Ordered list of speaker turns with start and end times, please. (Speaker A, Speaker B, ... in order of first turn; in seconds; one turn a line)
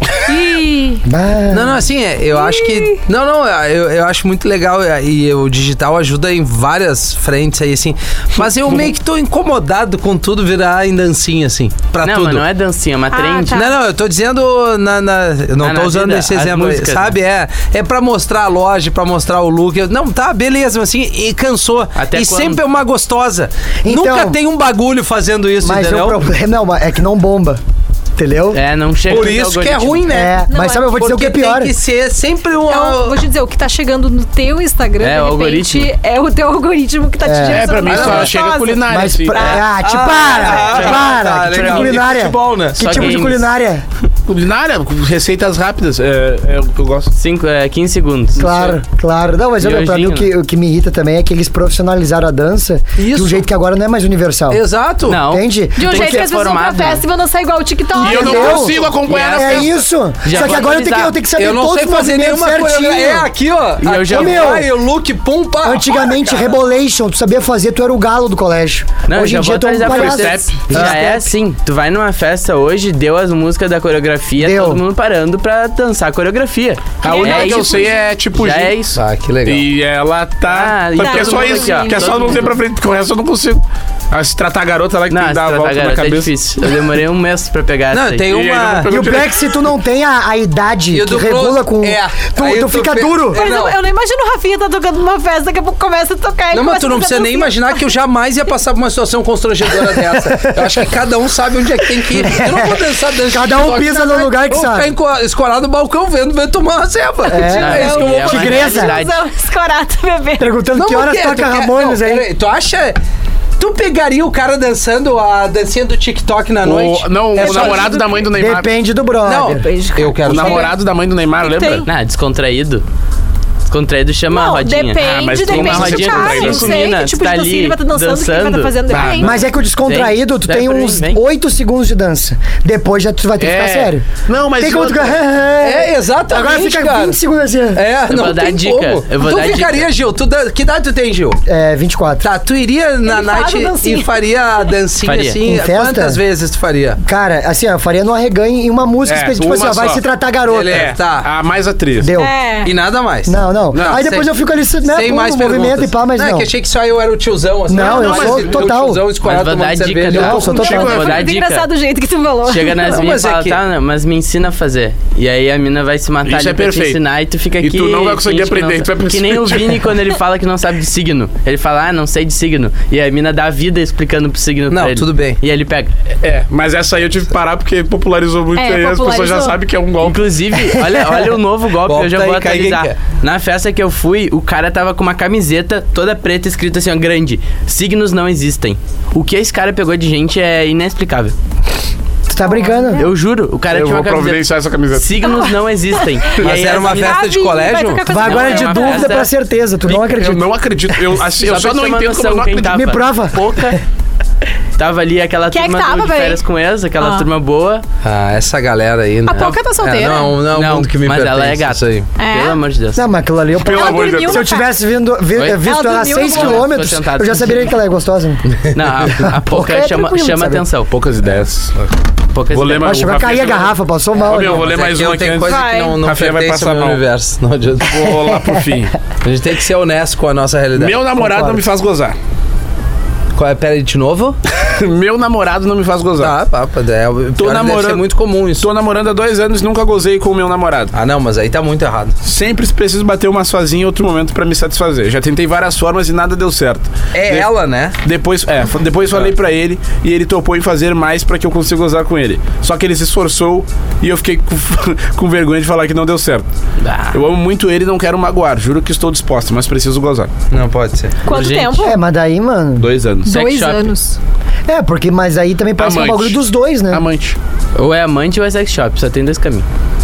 Speaker A: 0.2-1.0
Speaker B: 1.0-1.8
Speaker C: 1.5-12.4
Speaker A: 2.3-3.0
Speaker D: 12.0-13.6
Speaker A: 13.1-13.7
Speaker C: 13.5-26.2
Speaker D: 15.6-17.2
Speaker D: 21.9-22.6
Speaker B: 23.8-24.4
Speaker B: 25.6-27.6
Speaker B: 28.2-28.6
Speaker D: 28.5-30.1
Speaker C: 29.1-33.2
Speaker B: 30.1-31.7
Speaker A: 30.5-31.0
Speaker A: 32.7-39.6
Speaker D: 35.0-35.9
Speaker B: 37.2-37.7
Speaker E: 37.5-39.6
Speaker C: 37.9-38.3
Speaker B: 38.9-43.8
Speaker C: 39.8-43.1
Speaker D: 40.7-41.0
Speaker D: 41.6-41.9
Speaker D: 42.8-43.5
Speaker E: 44.3-47.1
Speaker D: 47.1-48.6
Speaker B: 48.4-54.6
Speaker D: 49.6-50.3
Speaker C: 53.0-53.5
Speaker C: 54.5-55.2
Speaker D: 55.1-57.0
Speaker B: 55.1-56.2
Speaker A: 55.8-58.8
Speaker B: 57.9-63.3
Speaker E: 58.0-59.8
Speaker D: 58.3-59.7
Speaker D: 60.2-61.2
Speaker C: 61.3-66.3
Speaker D: 63.8-64.6
Speaker B: 64.1-64.7
Speaker B: 65.6-71.3
Speaker D: 69.0-79.0
Speaker E: 69.8-70.7
Speaker C: 70.7-71.0
Speaker B: 74.4-74.8
Speaker E: 77.0-78.9
Speaker A: 77.0-78.0
Speaker C: 78.9-79.6
Speaker E: 79.4-86.3
Speaker D: 80.5-82.5
Speaker A: 81.0-82.5
Speaker D: 85.1-88.3
Speaker C: 87.9-89.0
Speaker E: 88.3-89.5
Speaker B: 88.8-93.5
Speaker C: 90.9-93.8
Speaker A: 93.3-97.8
Speaker C: 96.5-108.6
Speaker B: 99.9-100.9
Speaker B: 101.9-104.9
Speaker B: 107.3-108.9
Speaker D: 107.5-109.1
Speaker A: 107.6-110.5
Speaker B: 110.4-112.2
Speaker C: 110.7-113.0
Speaker C: 113.6-118.2
Speaker E: 116.6-118.7
Speaker B: 117.4-119.6
Speaker C: 119.2-120.7
Speaker A: 119.4-120.8
Speaker E: 120.2-121.8
Speaker A: 121.4-121.9
Speaker D: 121.8-122.8
Speaker D: 123.7-129.1
Speaker A: 124.3-129.4
Speaker E: 125.0-126.7
Speaker E: 128.9-129.4
Speaker B: 129.2-134.1
Speaker D: 129.8-131.2
Speaker E: 133.4-135.2
Speaker B: 134.6-137.8
Speaker C: 135.6-137.2
Speaker C: 137.7-141.4
Speaker D: 138.1-139.9
Speaker B: 141.5-142.2
Speaker C: 142.2-147.0
Speaker A: 143.1-144.1
Speaker D: 145.0-145.4
Speaker B: 145.4-146.2
Speaker B: 147.0-150.9
Speaker E: 149.0-150.0
Speaker C: 150.5-151.3
Speaker E: 150.7-152.1
Speaker B: 152.0-152.3
Speaker A: 152.2-152.7
Speaker C: 152.6-154.3
Speaker B: 153.2-156.5
Speaker E: 153.7-154.0
Speaker C: 154.8-160.5
Speaker B: 157.7-159.0
Speaker A: 157.8-158.2
Speaker E: 157.8-158.7
Speaker D: 159.2-161.7
Speaker B: 160.1-160.9
Speaker A: 160.2-162.8
Speaker E: 160.4-161.2
Speaker D: 162.4-175.9
Speaker C: 162.8-163.6
Speaker E: 166.2-167.0
Speaker E: 167.6-170.0
Speaker C: 174.7-175.4
Speaker E: 176.2-180.3
Speaker A: 178.6-179.6
Speaker D: 180.0-191.3
Speaker C: 181.8-183.0
Speaker B: 192.3-193.1
Speaker A: 192.4-193.1
Speaker D: 193.0-197.2
Speaker E: 193.7-195.1
Speaker A: 195.2-199.3
Speaker C: 196.4-198.1
Speaker B: 198.1-200.4
Speaker D: 198.2-199.3
Speaker E: 199.9-202.9
Speaker D: 201.3-203.8
Speaker B: 202.7-203.8
Speaker D: 204.8-207.8
Speaker A: 205.5-206.4
Speaker A: 207.0-207.3
Speaker C: 208.0-212.1
Speaker A: 209.2-210.4
Speaker D: 210.4-213.0
Speaker A: 212.2-212.6
Speaker B: 212.9-218.4
Speaker E: 213.6-214.5
Speaker A: 213.7-214.7
Speaker D: 215.3-217.7
Speaker A: 215.6-216.8
Speaker D: 218.7-220.9
Speaker B: 219.1-220.6
Speaker E: 220.9-221.7
Speaker D: 222.3-223.0
Speaker E: 222.5-227.0
Speaker B: 222.8-224.7
Speaker C: 224.4-228.1
Speaker A: 225.4-226.0
Speaker E: 227.8-228.9
Speaker C: 229.2-231.0
Speaker E: 230.8-232.2
Speaker B: 231.2-231.6
Speaker C: 233.3-234.4
Speaker E: 234.6-236.3
Speaker C: 236.2-238.7
Speaker E: 237.4-238.1
Speaker E: 238.6-240.9
Speaker C: 240.9-242.2
Speaker E: 242.2-247.5
Speaker C: 247.1-247.9
Speaker E: 248.0-256.4
Speaker D: 256.8-257.2
Speaker E: 257.1-260.3
Speaker C: 260.5-261.2
Speaker A: 261.2-262.0
Speaker D: 261.3-261.9
Speaker B: 261.8-262.9
Speaker E: 262.8-263.4
Speaker A: 263.2-264.2
Speaker D: 263.3-263.9
Speaker B: 264.7-267.0
Speaker E: 265.8-266.4
Speaker E: 266.9-267.4
Speaker D: 267.8-269.6